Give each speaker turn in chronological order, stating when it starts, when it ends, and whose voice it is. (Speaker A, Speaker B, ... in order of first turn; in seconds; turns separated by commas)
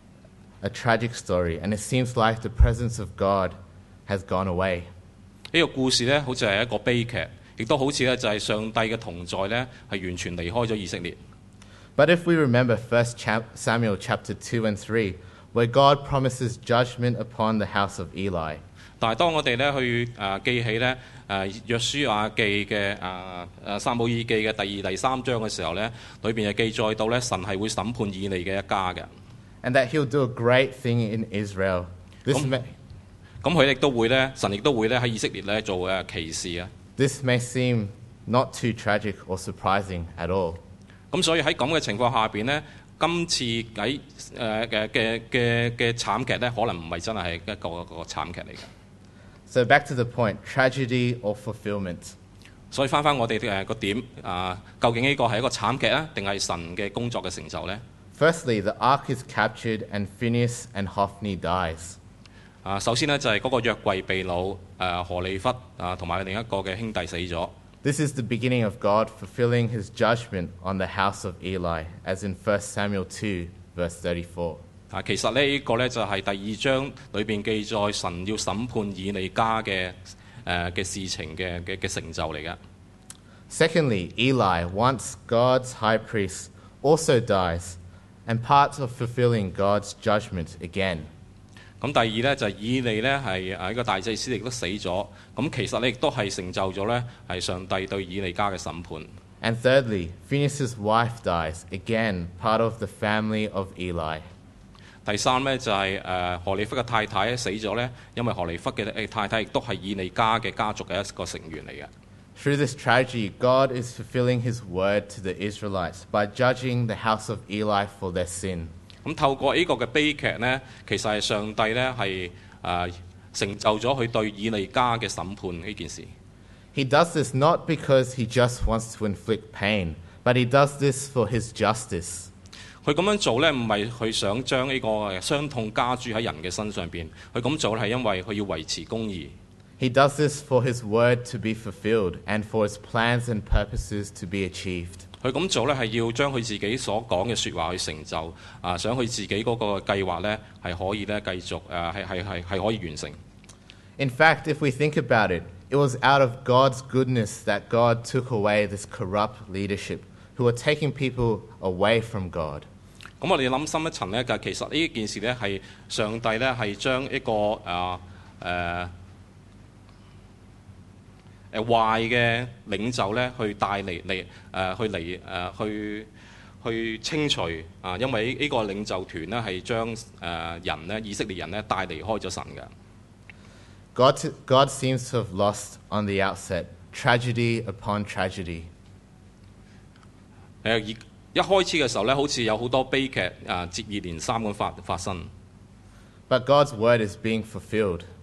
Speaker A: 0.6-3.5, Speaker A: 4.1-4.9, Speaker B: 5.5-11.2, Speaker A: 11.9-18.6, Speaker B: 19.0-29.1, Speaker A: 29.6-32.7, Speaker B: 33.4-36.7, Speaker A: 37.0-40.6, Speaker B: 41.1-48.7, Speaker A: 49.5-52.1, Speaker B: 52.7-57.8, Speaker A: 58.1-62.0, Speaker B: 62.6-67.5, Speaker A: 67.8-74.6, Speaker B: 74.9-82.6, Speaker A: 83.5-91.1, Speaker B: 91.8-99.1, Speaker A: 99.4-104.2, Speaker B: 105.0-111.9, Speaker A: 112.3-118.7, Speaker B: 119.0-126.1, Speaker A: 126.7-132.3, Speaker B: 132.8-139.3, Speaker A: 139.8-145.0, Speaker B: 145.2-153.2, Speaker A: 154.0-162.7, Speaker B: 163.2-168.9, Speaker B: 171.5-176.1, Speaker B: 176.6-182.7, Speaker A: 183.9-188.7, Speaker B: 190.6-195.3, Speaker A: 196.3-198.1